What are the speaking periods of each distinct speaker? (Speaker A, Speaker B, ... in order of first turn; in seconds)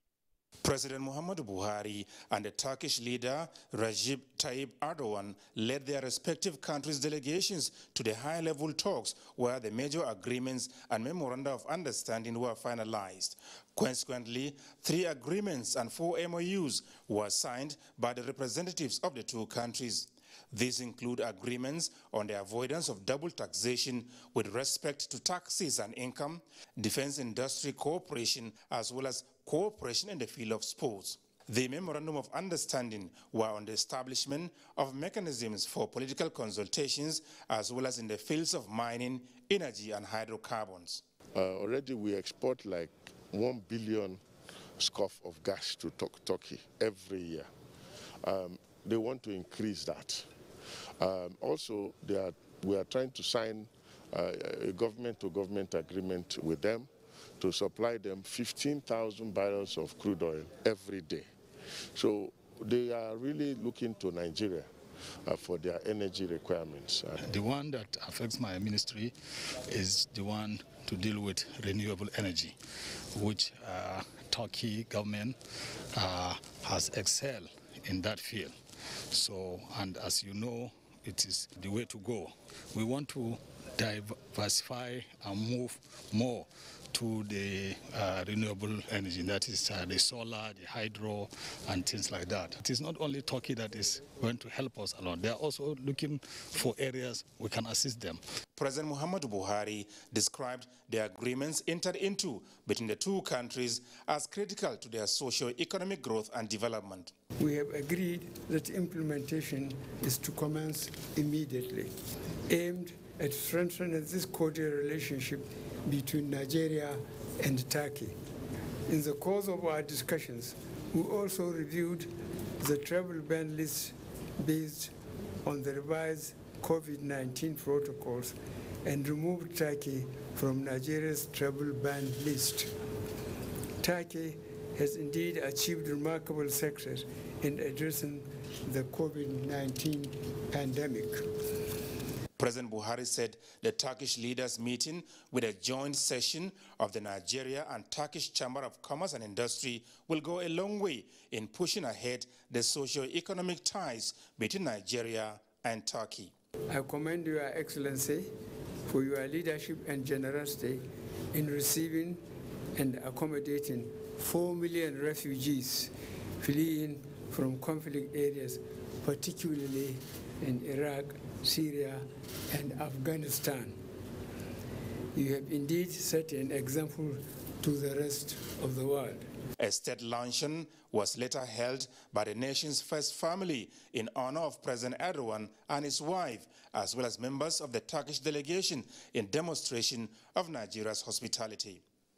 Speaker A: 0.6-41.0, 98.5-107.1, 142.4-156.3, 179.6-191.8
Speaker B: 41.3-44.2, 44.8-47.5, 48.2-50.3, 51.0-61.3, 61.9-64.7, 65.2-67.2
Speaker C: 67.2-69.1, 69.7-72.5, 73.1-75.3, 75.9-78.5, 79.1-98.2
Speaker D: 107.4-111.9, 112.5-118.1, 118.9-124.9, 125.4-132.7, 133.8-141.2, 156.7-158.3, 158.8-162.2, 162.8-173.8, 175.1-179.2